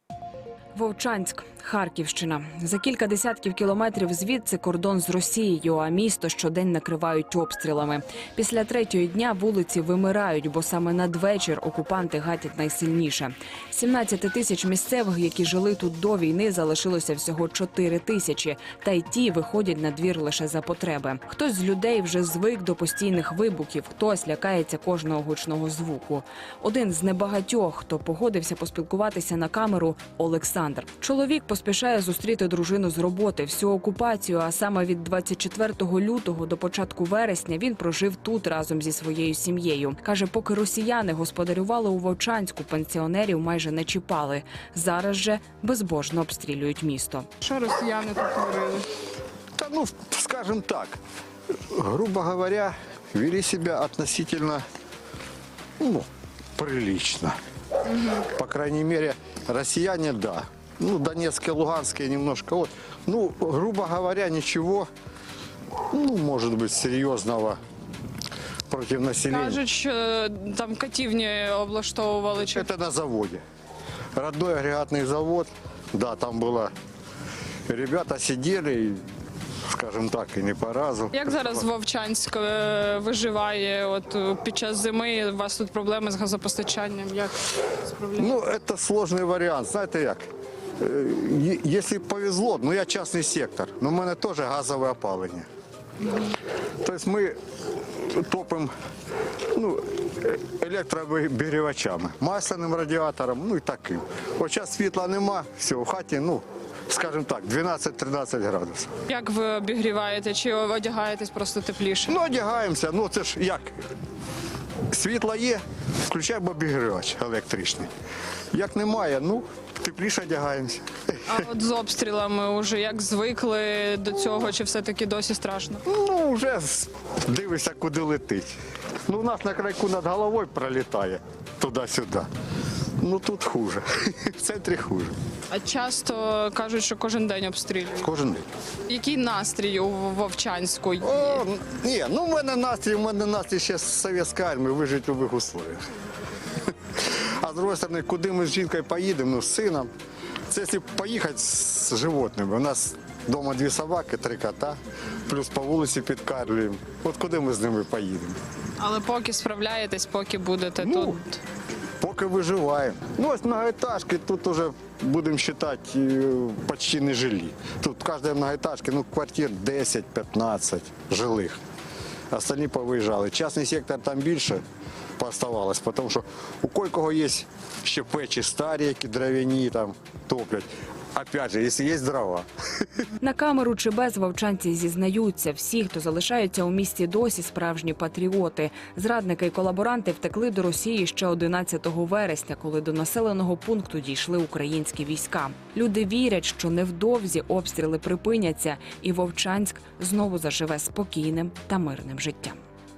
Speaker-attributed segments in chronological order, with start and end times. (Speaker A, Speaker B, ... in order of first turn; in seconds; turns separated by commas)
Speaker A: 0.8-47.3, Speaker B: 47.4-48.9, Speaker C: 49.5-51.0, Speaker C: 51.7-54.6, Speaker C: 55.8-57.4, Speaker B: 58.0-58.2, Speaker C: 58.2-64.9, Speaker C: 65.9-67.6, Speaker C: 68.7-69.6, Speaker B: 69.3-72.6, Speaker C: 72.4-73.4, Speaker C: 74.2-76.7, Speaker C: 77.7-79.0, Speaker C: 79.7-81.7, Speaker B: 81.1-88.3, Speaker C: 88.2-90.2, Speaker C: 90.8-95.5, Speaker C: 96.8-97.4, Speaker C: 98.0-98.7, Speaker C: 99.5-108.9, Speaker B: 109.1-112.2, Speaker C: 112.1-113.8, Speaker C: 114.9-117.9, Speaker C: 118.5-121.2, Speaker B: 121.3-125.8, Speaker C: 125.8-128.5, Speaker C: 129.1-132.3, Speaker C: 133.0-135.2, Speaker B: 135.5-138.1, Speaker C: 138.0-138.5, Speaker B: 138.9-141.4, Speaker C: 141.0-145.9, Speaker C: 147.0-149.9, Speaker C: 150.5-158.4, Speaker B: 158.8-161.4, Speaker C: 160.8-161.2, Speaker C: 162.0-171.6, Speaker C: 172.3-174.6, Speaker C: 175.2-182.9, Speaker A: 183.2-202.6